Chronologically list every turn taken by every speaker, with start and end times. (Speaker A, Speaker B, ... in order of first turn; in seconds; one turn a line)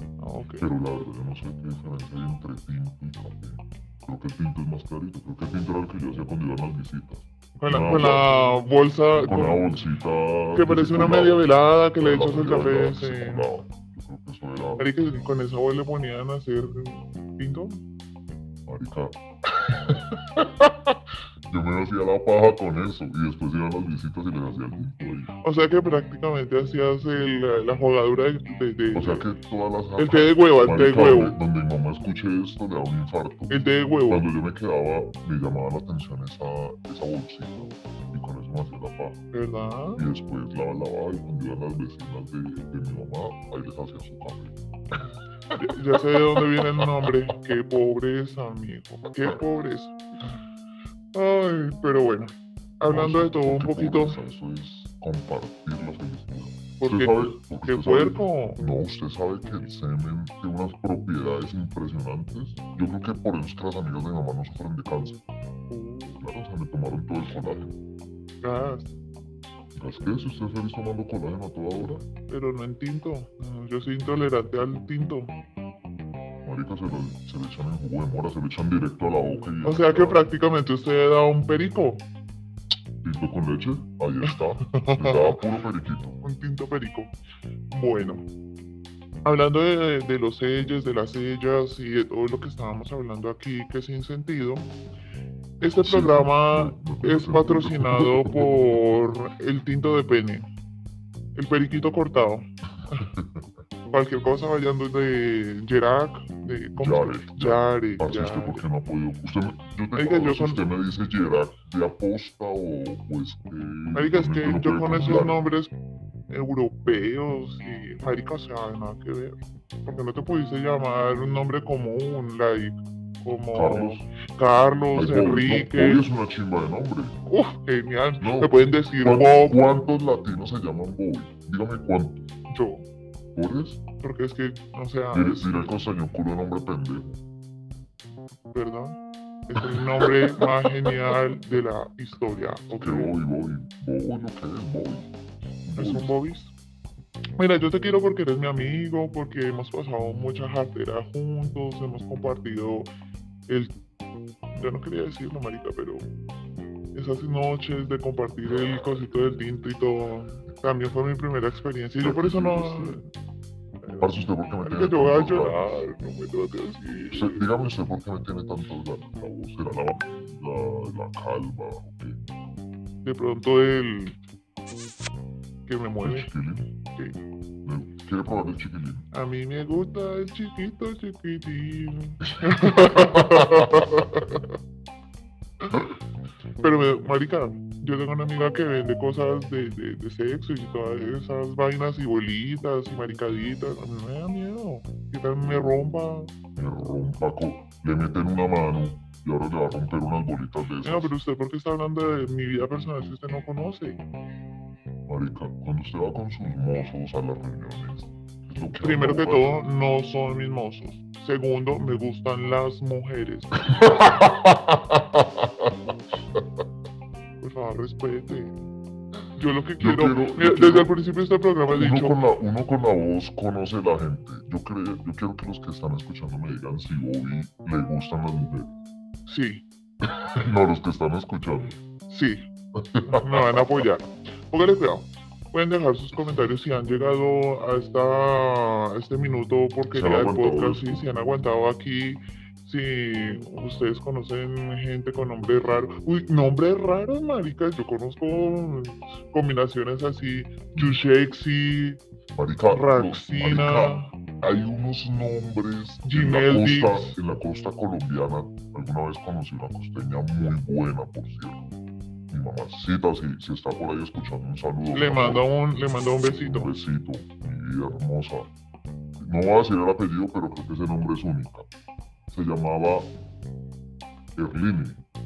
Speaker A: 0.2-0.7
Speaker B: 0.6-8.3
Speaker A: 7.6-9.8
Speaker B: 9.2-11.4
Speaker A: 10.5-13.5
Speaker B: 12.0-14.8
Speaker A: 14.8-17.8
Speaker B: 18.7-20.9
Speaker B: 21.5-25.3
Speaker A: 25.4-29.2
Speaker B: 28.9-33.5
Speaker A: 30.0-31.4
Speaker A: 33.5-34.2
Speaker B: 34.1-39.2
Speaker A: 39.3-40.0
Speaker B: 40.0-45.0
Speaker A: 45.5-50.0
Speaker B: 46.3-47.1
Speaker A: 51.1-54.2
Speaker B: 52.8-65.2
Speaker A: 56.8-58.6
Speaker A: 65.7-66.2
Speaker B: 66.2-67.8
Speaker A: 68.4-68.9
Speaker B: 69.7-72.0
Speaker A: 72.3-75.3
Speaker B: 76.4-80.3
Speaker A: 79.6-82.0
Speaker B: 83.0-86.2
Speaker A: 84.6-85.4
Speaker A: 86.2-87.1
Speaker A: 87.7-88.2
Speaker A: 89.2-94.7
Speaker A: 95.6-100.5
Speaker B: 95.8-98.7
Speaker A: 101.3-102.5
Speaker B: 103.0-103.4
Speaker A: 103.9-108.6
Speaker B: 106.8-115.4
Speaker A: 110.0-110.6
Speaker A: 113.9-115.7
Speaker A: 116.3-126.0
Speaker B: 123.5-124.1
Speaker B: 124.9-127.2
Speaker A: 127.3-129.7
Speaker B: 128.2-132.3
Speaker A: 132.5-132.8
Speaker B: 133.3-133.8
Speaker A: 134.0-135.6
Speaker B: 135.1-137.2
Speaker A: 138.5-143.1
Speaker B: 139.8-141.1
Speaker B: 142.8-145.1
Speaker B: 145.6-146.1
Speaker A: 145.8-146.5
Speaker A: 147.4-152.9
Speaker A: 153.5-153.7
Speaker A: 154.5-156.1
Speaker A: 156.9-163.1
Speaker B: 162.0-163.0
Speaker A: 163.8-167.4
Speaker B: 164.0-165.8
Speaker B: 167.1-172.2
Speaker A: 173.0-174.2
Speaker A: 175.7-176.3
Speaker B: 176.0-176.7
Speaker B: 177.6-179.1
Speaker A: 179.1-184.4
Speaker B: 182.4-184.0
Speaker A: 186.6-196.3
Speaker B: 196.6-201.1
Speaker A: 200.8-204.0
Speaker B: 205.1-209.5
Speaker A: 208.8-213.9
Speaker B: 213.7-215.9
Speaker A: 217.4-218.6
Speaker A: 219.3-222.2
Speaker B: 219.8-220.9
Speaker B: 221.7-228.7
Speaker A: 229.3-229.6
Speaker B: 230.0-231.7
Speaker A: 232.1-232.4
Speaker B: 232.7-233.7
Speaker A: 233.1-252.0
Speaker B: 239.9-241.0
Speaker B: 252.3-261.6
Speaker A: 252.7-254.1
Speaker A: 256.0-257.1
Speaker B: 262.3-265.4
Speaker A: 264.9-266.7
Speaker B: 266.2-268.5
Speaker B: 269.2-271.7
Speaker B: 272.3-273.1
Speaker B: 274.4-275.0